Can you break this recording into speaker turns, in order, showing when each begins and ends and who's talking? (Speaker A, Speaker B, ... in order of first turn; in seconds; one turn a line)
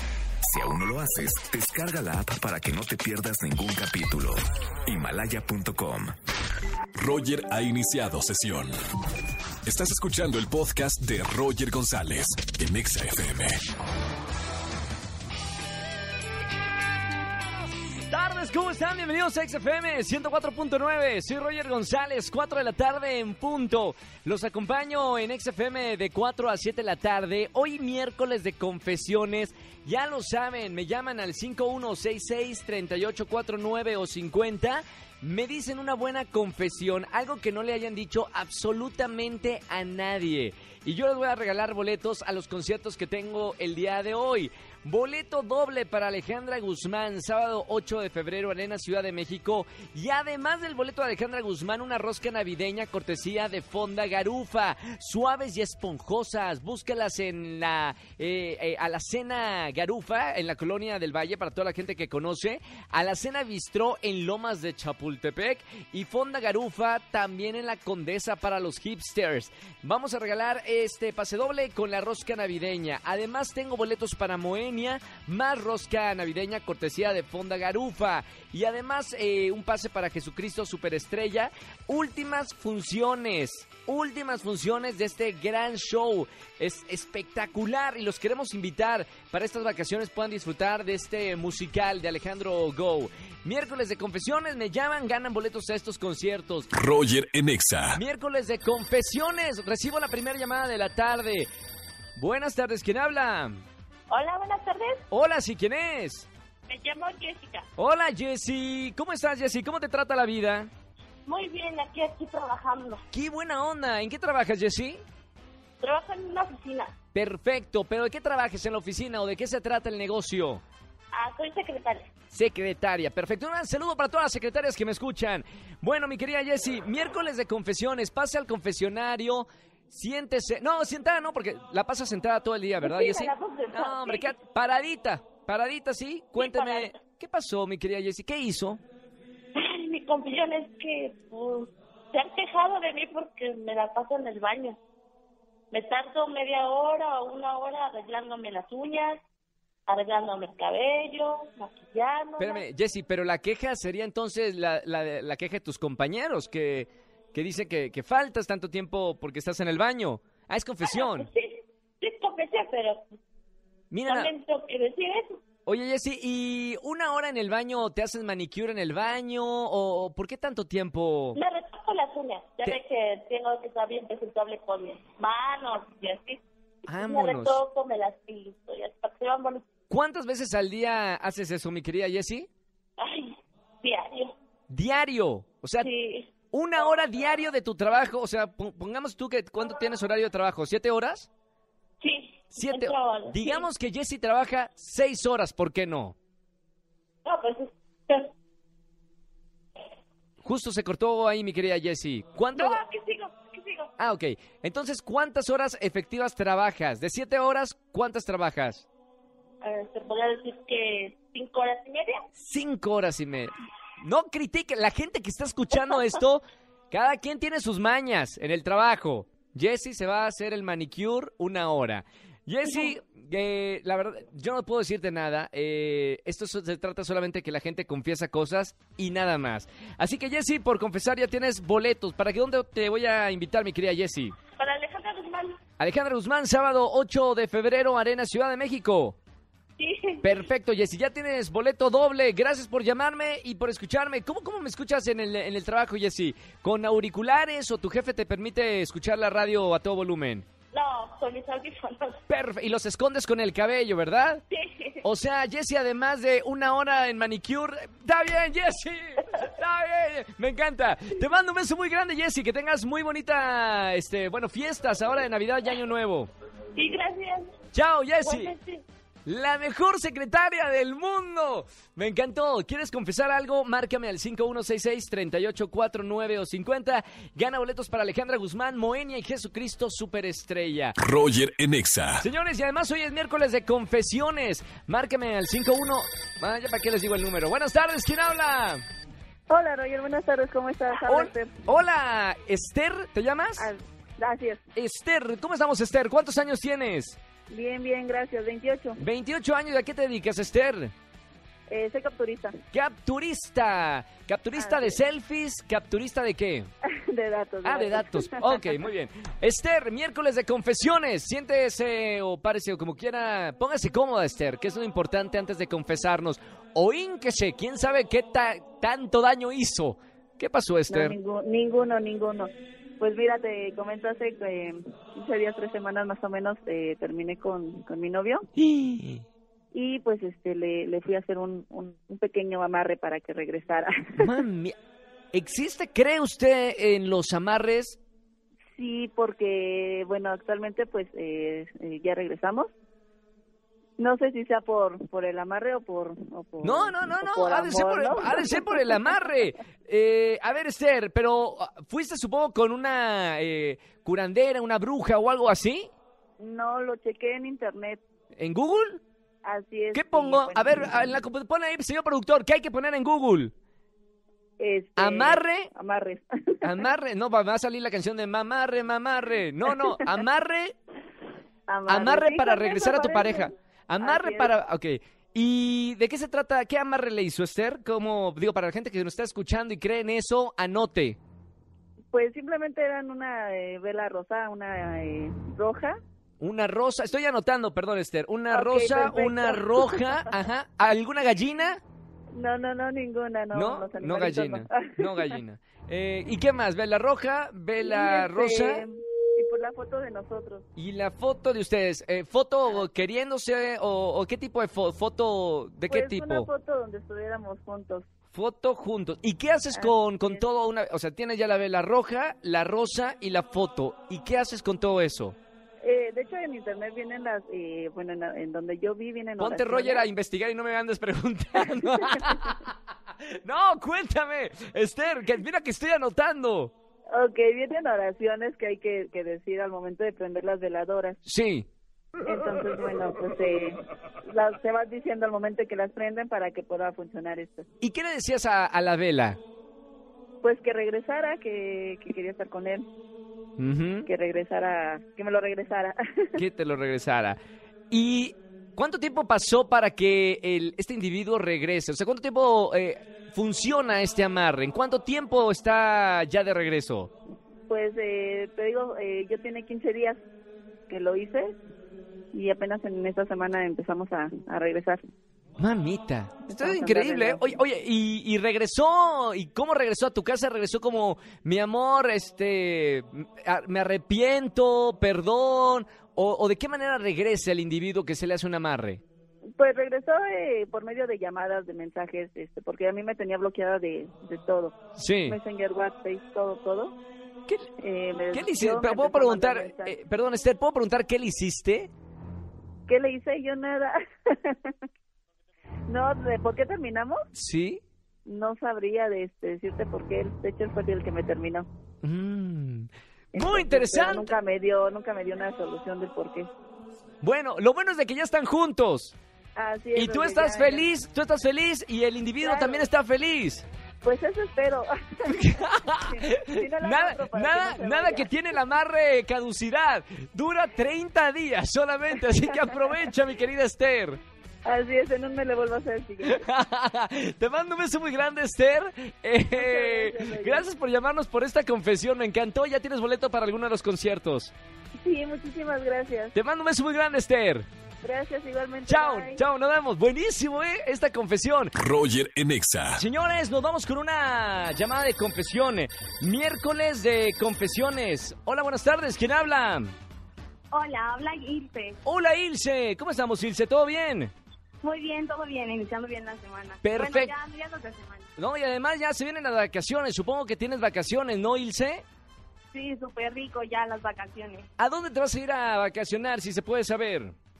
Speaker A: 0.5-6.1
Speaker B: 7.0-8.7
Speaker B: 9.7-13.6
Speaker C: 18.0-96.7
Speaker B: 96.7-98.0
Speaker C: 97.9-101.5
Speaker C: 102.2-103.6
Speaker D: 104.1-105.0
Speaker C: 105.1-106.3
Speaker D: 106.7-107.6
Speaker C: 107.8-110.7
Speaker D: 111.2-113.0
Speaker C: 113.1-115.0
Speaker D: 115.8-116.9
Speaker C: 117.1-120.6
Speaker D: 121.1-122.1
Speaker C: 122.3-138.8
Speaker D: 132.8-134.3
Speaker D: 136.4-137.0
Speaker D: 139.6-144.8
Speaker D: 145.7-149.2
Speaker D: 149.9-152.6
Speaker C: 152.4-161.3
Speaker D: 160.8-163.1
Speaker C: 163.9-164.3
Speaker D: 164.1-165.4
Speaker C: 165.7-171.4
Speaker D: 171.3-176.4
Speaker C: 176.9-177.6
Speaker D: 176.9-179.7
Speaker C: 179.9-182.5
Speaker D: 183.0-184.3
Speaker C: 184.7-185.9
Speaker D: 185.8-186.3
Speaker C: 186.5-191.3
Speaker D: 192.0-193.6
Speaker C: 192.5-196.2
Speaker D: 197.2-198.3
Speaker C: 200.4-202.8
Speaker D: 202.6-203.9
Speaker C: 204.0-208.9
Speaker D: 209.6-212.2
Speaker C: 212.3-234.3
Speaker D: 234.6-235.6
Speaker C: 235.8-239.2
Speaker D: 239.8-240.4
Speaker C: 240.2-250.4
Speaker D: 250.7-252.2
Speaker C: 252.3-254.4
Speaker D: 254.5-255.0
Speaker C: 255.0-266.3
Speaker D: 266.7-267.5
Speaker C: 267.7-268.5
Speaker D: 268.2-268.8
Speaker C: 269.2-280.9
Speaker B: 281.0-282.2
Speaker C: 282.2-288.8
Speaker E: 289.5-291.5
Speaker C: 291.0-293.7
Speaker E: 293.6-294.6
Speaker C: 294.8-297.2
Speaker E: 297.5-299.0
Speaker C: 299.0-300.9
Speaker E: 301.7-302.6
Speaker C: 302.7-306.7
Speaker E: 304.6-305.0
Speaker E: 307.0-308.4
Speaker C: 307.6-321.2
Speaker E: 320.9-328.4
Speaker C: 328.6-329.2
Speaker E: 329.7-334.3
Speaker C: 334.2-334.7
Speaker C: 335.3-338.0
Speaker E: 338.8-342.7
Speaker E: 344.0-348.9
Speaker C: 346.6-355.9
Speaker E: 356.4-358.0
Speaker C: 358.3-359.0
Speaker E: 359.4-360.9
Speaker C: 359.9-363.5
Speaker E: 364.6-366.7
Speaker C: 365.0-365.7
Speaker C: 366.6-370.8
Speaker E: 371.7-374.5
Speaker C: 371.9-381.2
Speaker E: 382.1-386.0
Speaker C: 386.4-391.8
Speaker E: 388.5-390.2
Speaker E: 392.4-395.3
Speaker C: 393.5-398.8
Speaker E: 397.8-400.6
Speaker C: 400.8-406.5
Speaker E: 405.9-408.0
Speaker C: 408.3-415.4
Speaker E: 409.7-410.4
Speaker E: 415.8-420.1
Speaker C: 419.4-422.7
Speaker C: 423.3-426.7
Speaker E: 427.1-431.2
Speaker C: 431.2-431.6
Speaker E: 432.2-433.8
Speaker E: 434.3-437.6
Speaker C: 437.8-439.4
Speaker E: 440.4-442.9
Speaker C: 443.6-444.1
Speaker E: 444.1-446.4
Speaker C: 446.4-447.4
Speaker C: 447.9-457.1
Speaker E: 457.7-460.2
Speaker E: 460.9-461.6
Speaker E: 462.3-465.0
Speaker C: 465.6-479.0
Speaker E: 466.5-467.4
Speaker E: 479.6-484.7
Speaker C: 484.9-485.4
Speaker E: 485.3-486.9
Speaker E: 487.8-489.9
Speaker C: 488.3-491.9
Speaker E: 492.9-494.7
Speaker E: 495.9-497.2
Speaker C: 497.3-497.8
Speaker E: 498.2-501.7
Speaker C: 502.0-504.3
Speaker E: 503.3-506.5
Speaker C: 507.2-509.1
Speaker E: 509.6-510.9
Speaker C: 509.9-513.6
Speaker E: 512.4-512.9
Speaker E: 514.0-515.3
Speaker C: 515.3-524.2
Speaker E: 516.1-518.3
Speaker E: 524.6-526.4
Speaker C: 526.2-534.5
Speaker E: 529.6-530.6
Speaker E: 535.0-536.3
Speaker C: 536.3-537.7
Speaker E: 538.0-539.4
Speaker C: 538.9-541.7
Speaker B: 541.8-543.0
Speaker C: 543.0-549.9
Speaker F: 550.7-552.0
Speaker C: 552.0-554.3
Speaker F: 554.8-558.3
Speaker C: 556.8-557.3
Speaker C: 558.4-562.0
Speaker F: 562.7-564.7
Speaker C: 564.8-567.3